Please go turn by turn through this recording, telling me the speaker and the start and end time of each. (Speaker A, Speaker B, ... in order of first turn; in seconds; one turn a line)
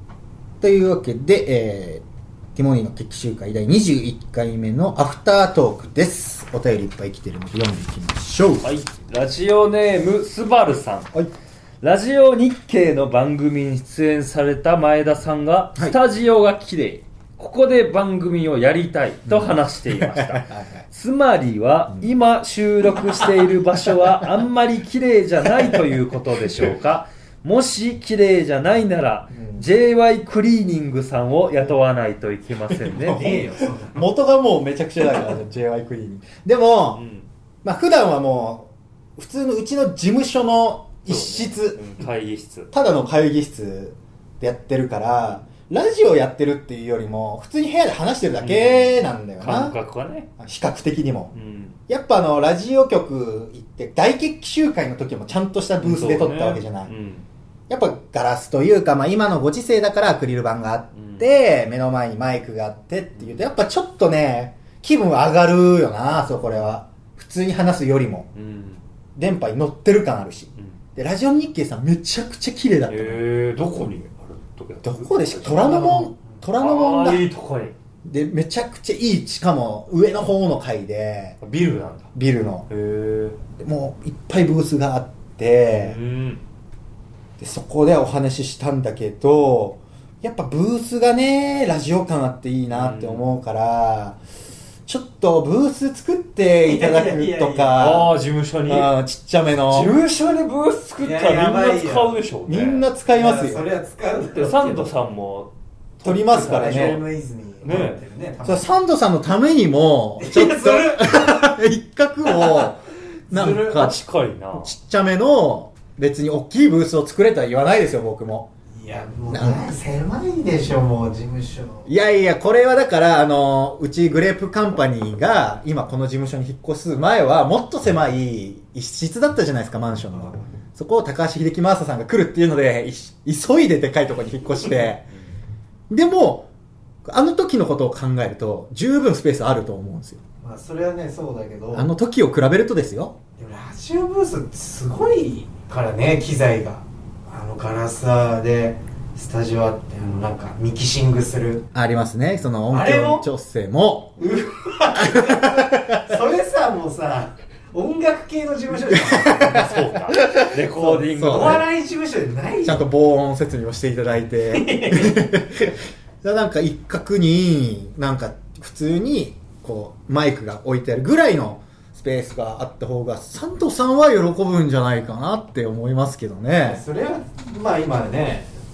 Speaker A: 0.6-8.7
Speaker B: 8.6-11.1
Speaker B: 11.8-33.3
Speaker A: 19.3-20.8
Speaker A: 29.3-29.7
Speaker A: 32.7-37.0
Speaker C: 33.1-34.0
Speaker B: 36.9-37.3
Speaker A: 37.6-42.0
Speaker B: 41.1-42.7
Speaker A: 42.7-49.8
Speaker B: 48.4-50.3
Speaker A: 50.4-51.4
Speaker B: 51.3-51.8
Speaker A: 51.9-56.9
Speaker B: 55.8-57.3
Speaker A: 57.7-68.3
Speaker B: 61.0-61.3
Speaker B: 63.1-63.5
Speaker B: 68.3-68.8
Speaker A: 69.2-73.2
Speaker B: 72.9-77.8
Speaker A: 74.8-77.3
Speaker A: 78.0-81.4
Speaker B: 81.4-82.1
Speaker A: 82.1-82.7
Speaker B: 82.7-83.4
Speaker A: 83.6-86.0
Speaker B: 85.7-86.4
Speaker A: 87.4-94.2
Speaker B: 92.7-93.3
Speaker A: 94.9-98.2
Speaker C: 96.6-97.8
Speaker B: 97.8-98.9
Speaker A: 98.7-100.0
Speaker B: 99.7-102.9
Speaker C: 101.0-102.2
Speaker A: 102.5-103.7
Speaker C: 103.1-104.9
Speaker B: 104.3-107.0
Speaker A: 106.0-107.0
Speaker C: 106.1-108.7
Speaker B: 107.6-108.0
Speaker A: 108.4-114.0
Speaker C: 110.2-111.5
Speaker C: 112.2-112.7
Speaker C: 113.3-113.9
Speaker B: 113.6-114.7
Speaker A: 114.5-118.5
Speaker C: 118.7-121.9
Speaker A: 119.3-119.7
Speaker A: 121.9-135.1
Speaker A: 135.9-136.5
Speaker A: 137.1-140.2
Speaker C: 140.4-141.9
Speaker A: 141.7-143.2
Speaker C: 143.4-151.7
Speaker A: 151.8-154.2
Speaker C: 152.7-153.3
Speaker C: 154.2-159.9
Speaker A: 155.0-156.1
Speaker A: 158.9-159.5
Speaker B: 159.5-161.6
Speaker A: 160.1-160.6
Speaker C: 160.7-162.9
Speaker A: 161.1-161.6
Speaker A: 162.6-176.8
Speaker C: 164.5-165.3
Speaker C: 176.6-178.5